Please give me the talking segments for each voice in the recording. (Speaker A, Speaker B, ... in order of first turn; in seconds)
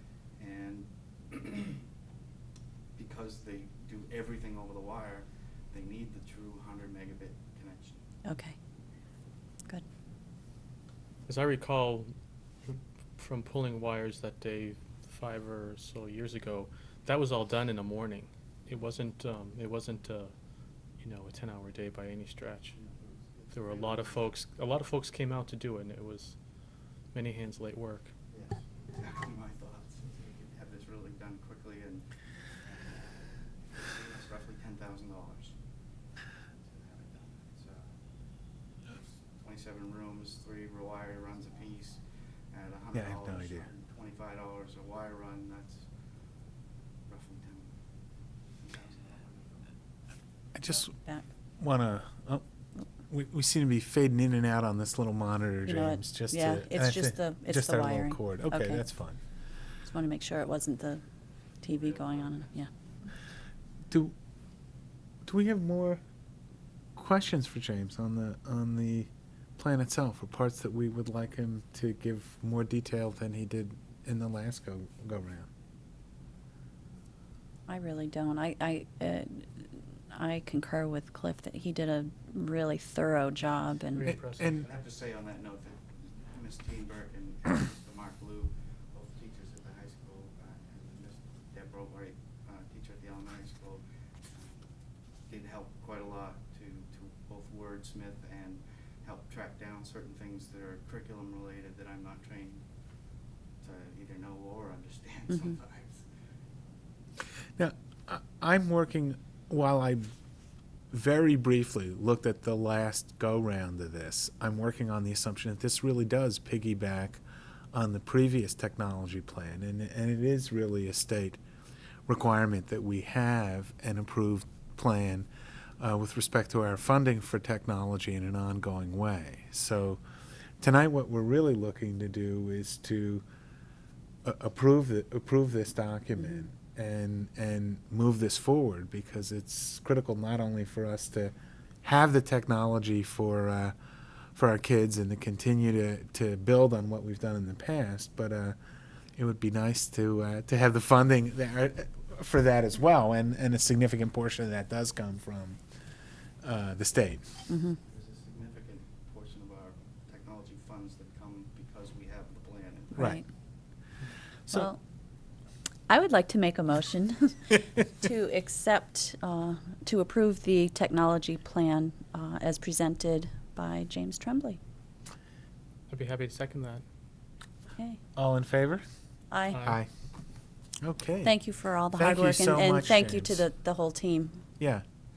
Speaker A: 0.3-1.8, 2.9-8.0, 22.7-24.2, 28.3-35.6, 36.6-38.0, 38.8-45.9, 47.0-47.8, 48.6-49.8, 61.7-62.6, 84.6-94.7, 95.2-102.6, 103.6-106.1, 157.8-163.2
Speaker B: 8.2-8.6, 50.9-51.2, 55.6-58.8, 59.8-61.0, 61.6-62.7, 77.7-84.1, 157.5-157.8, 162.9-163.2, 164.5-164.8, 165.9-174.6, 177.7-178.0, 179.3-179.7, 181.2-184.4
Speaker C: 11.2-20.3, 21.0-22.8, 23.5-26.5, 27.1-28.1, 83.9-84.7, 175.9-176.8, 179.5-179.8
Speaker D: 42.9-43.7, 50.5-50.9, 51.6-52.4, 53.1-59.2, 65.2-66.0, 66.9-75.5, 84.1-84.6, 107.6-110.0, 110.9-117.2, 117.7-121.4, 122.1-125.3, 125.8-130.0, 130.6-133.2, 134.2-141.3, 141.8-143.7, 144.3-148.6, 149.2-155.6, 156.4-157.2, 178.2-178.8, 180.8-183.4